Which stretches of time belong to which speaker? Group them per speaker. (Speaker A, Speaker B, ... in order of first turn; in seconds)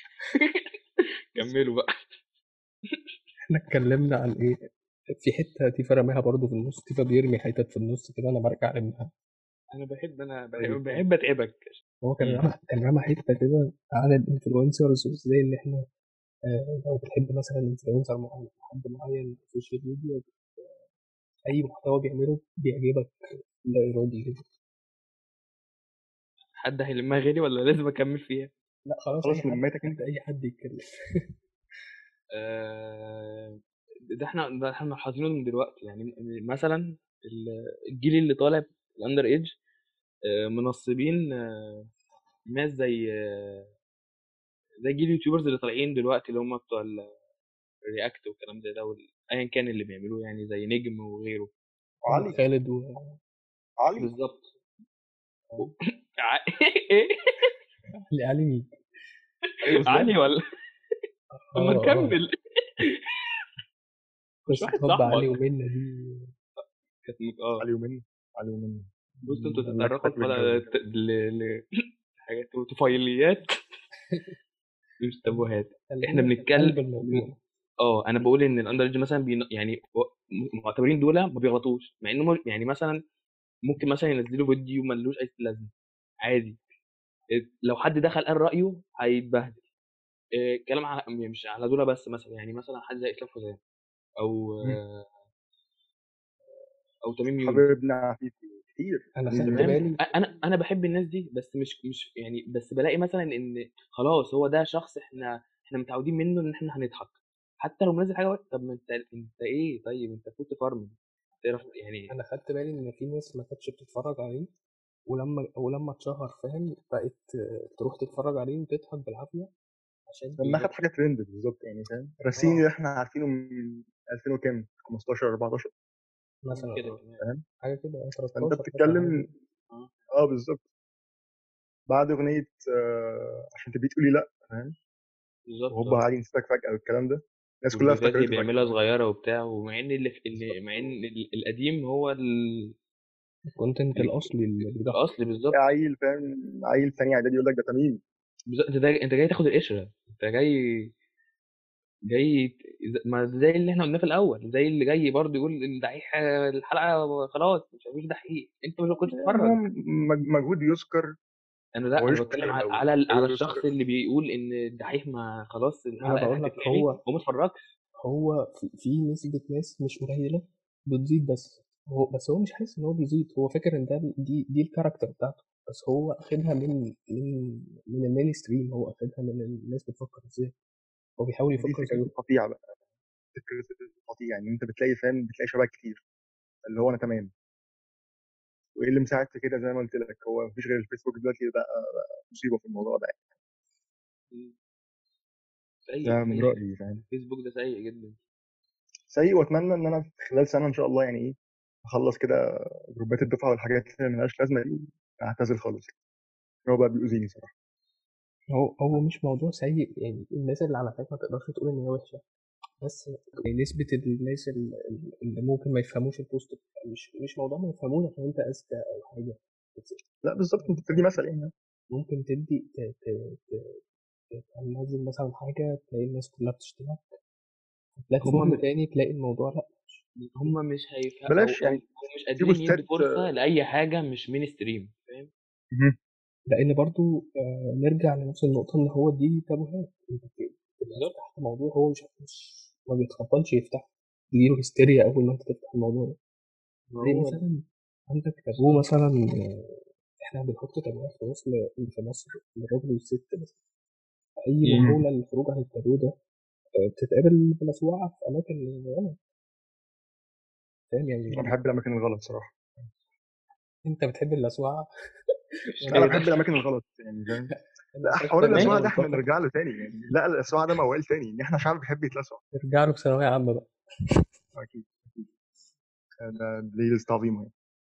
Speaker A: 0.3-2.2, 9.7-12.4, 26.6-28.5, 32.3-33.6, 34.1-39.5, 40.5-41.9, 42.5-43.7, 44.8-47.1, 47.9-51.5, 54.0-54.5, 55.6-57.1, 59.8-60.4, 61.6-63.4, 64.5-65.4, 66.6-67.6, 69.2-71.6, 72.2-73.5, 75.0-77.3, 77.8-83.0, 83.7-85.7, 86.2-86.6, 87.6-89.6, 90.4-93.6, 94.2-95.2, 97.0-97.6, 99.4-112.1, 122.3-122.7, 126.5-127.2, 135.5-136.0, 137.7-142.7, 143.9-145.6, 148.5-150.9, 152.1-159.6, 161.8-167.7, 194.3-194.6, 195.8-198.2, 228.2-228.6, 230.2-235.3, 246.9-247.4, 248.6-248.8, 265.8-266.4, 268.5-268.8
Speaker B: 3.5-4.6, 5.1-9.1, 12.0-15.8, 16.5-20.8, 21.5-24.4, 28.9-30.9, 52.1-53.2, 58.1-58.7, 61.3-62.2, 64.5-66.3, 75.3-77.4, 99.2-100.0, 112.1-114.5, 115.1-119.5, 120.1-120.7, 126.4-127.0, 127.6-129.3, 143.5-145.1, 166.0-167.0, 168.0-180.5, 181.2-182.1, 208.5-212.2, 212.8-220.0, 220.6-221.2, 221.9-223.8, 224.3-227.1, 227.9-230.0, 236.5-246.2, 247.0-253.6, 254.4-256.1, 257.0-259.1, 260.9-261.6, 263.9-264.9, 265.7-266.2, 267.5-269.3, 272.5-273.7
Speaker C: 10.5-11.0, 29.2-30.0, 52.0-52.4, 53.8-54.1, 59.7-60.1, 67.6-70.8, 97.4-99.8, 120.4-125.7, 127.2-127.4, 128.4-129.3, 130.1-130.7, 131.9-134.8, 135.7-138.7, 140.4-140.9, 145.5-148.0, 159.1-161.1, 162.0-163.7, 181.6-182.8, 183.3-186.0, 186.6-187.3, 188.8-193.2, 196.0-197.0, 199.1-202.4, 202.9-205.9, 206.7-207.5, 220.2-221.5, 231.3-231.8, 232.4-233.2, 235.7-236.0, 261.3-262.9, 265.9-267.5, 268.0-272.4, 274.5-275.3, 276.2-277.5